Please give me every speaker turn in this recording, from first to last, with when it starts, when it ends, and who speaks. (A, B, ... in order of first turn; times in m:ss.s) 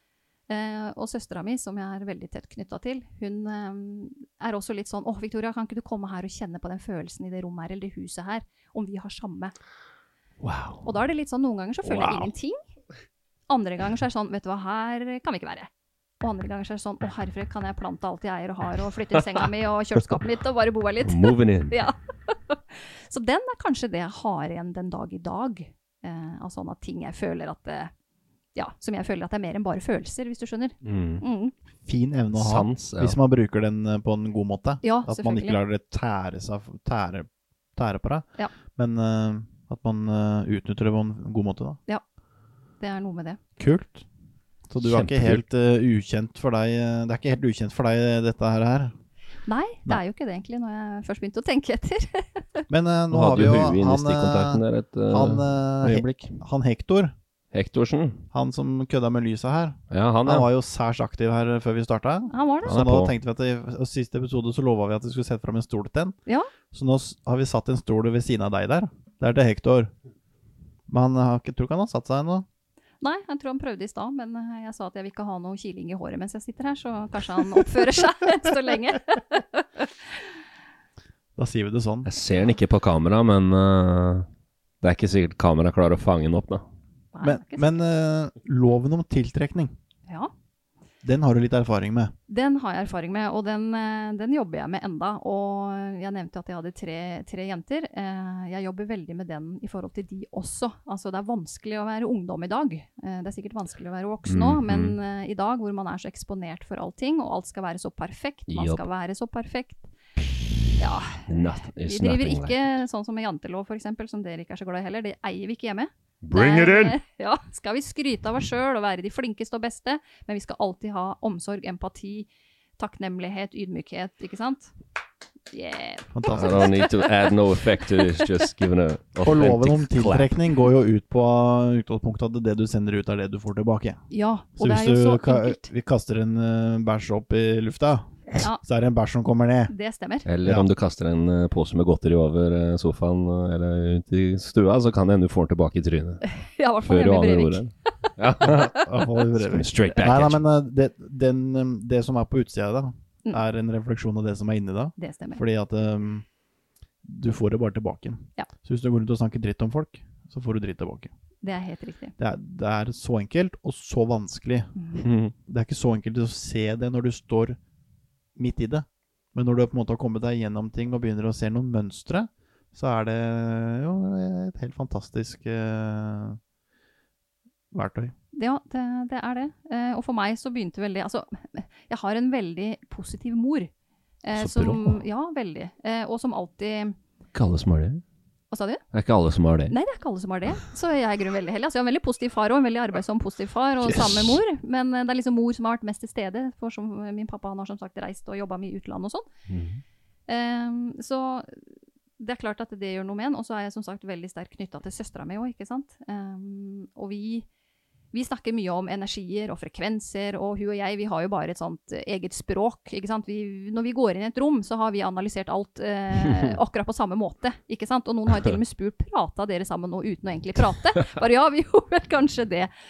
0:00.5-0:09.5 A
0:10.4-0:10.9 B
0:10.8-0:12.6 A
0:11.8-0:12.3 B
0:13.5-0:15.7 A
0:16.2-0:27.9 A
0:21.0-0:21.8 B
0:28.6-0:31.5 A
0:30.8-0:31.2 B
0:31.8-0:41.8 C
0:32.3-0:33.2 B
0:34.8-0:35.6 A
0:42.8-0:43.4 A
0:43.6-0:44.0 C
0:44.7-0:48.9 C
0:44.8-0:45.4 B
0:49.5-0:52.6 A
0:52.7-0:57.1 C
0:53.1-0:56.4 B
0:57.5-0:58.2 B
0:58.3-1:06.2 C
0:59.9-1:00.5 B
1:02.3-1:02.7 A
1:02.6-1:03.1 B
1:06.7-1:09.9 C
1:10.9-1:12.4 C
1:13.0-1:19.9 A
1:21.4-1:22.1 C
1:22.0-1:24.3 B
1:24.8-1:26.6 B
1:27.1-1:27.8 A
1:27.2-1:29.7 C
1:31.0-1:32.1 C
1:32.3-1:49.8 A
1:44.3-1:45.0 B
1:48.5-1:48.8 B
1:50.8-2:02.3 A
1:51.3-1:52.8 B
1:56.2-1:57.0 B
2:02.8-2:04.7 A
2:05.5-2:07.1 A
2:06.1-2:06.7 C
2:06.3-2:10.3 B
2:09.2-2:14.0 C
2:14.1-2:15.7 A
2:14.6-2:19.7 C
2:19.7-2:20.2 A
2:20.2-2:26.2 B
2:20.4-2:20.7 C
2:26.2-2:27.6 A
2:26.8-2:30.4 B
2:28.4-2:36.2 C
2:35.0-2:35.4 A
2:37.0-2:41.1 C
2:41.4-2:42.1 A
2:42.2-2:44.7 C
2:44.8-2:45.0 A
2:45.0-2:45.3 B
2:45.5-2:47.6 C
2:48.4-2:56.4 C
2:57.7-2:58.1 C
2:58.3-3:03.7 A
3:04.2-3:07.0 A
3:04.3-3:05.0 B
3:07.3-3:08.0 B
3:08.5-3:08.8 A
3:08.9-3:09.7 B
3:09.7-3:19.3 A
3:13.8-3:14.4 B
3:19.5-3:19.8 B
3:20.3-3:21.6 A
3:22.2-3:27.4 A
3:28.1-3:42.7 A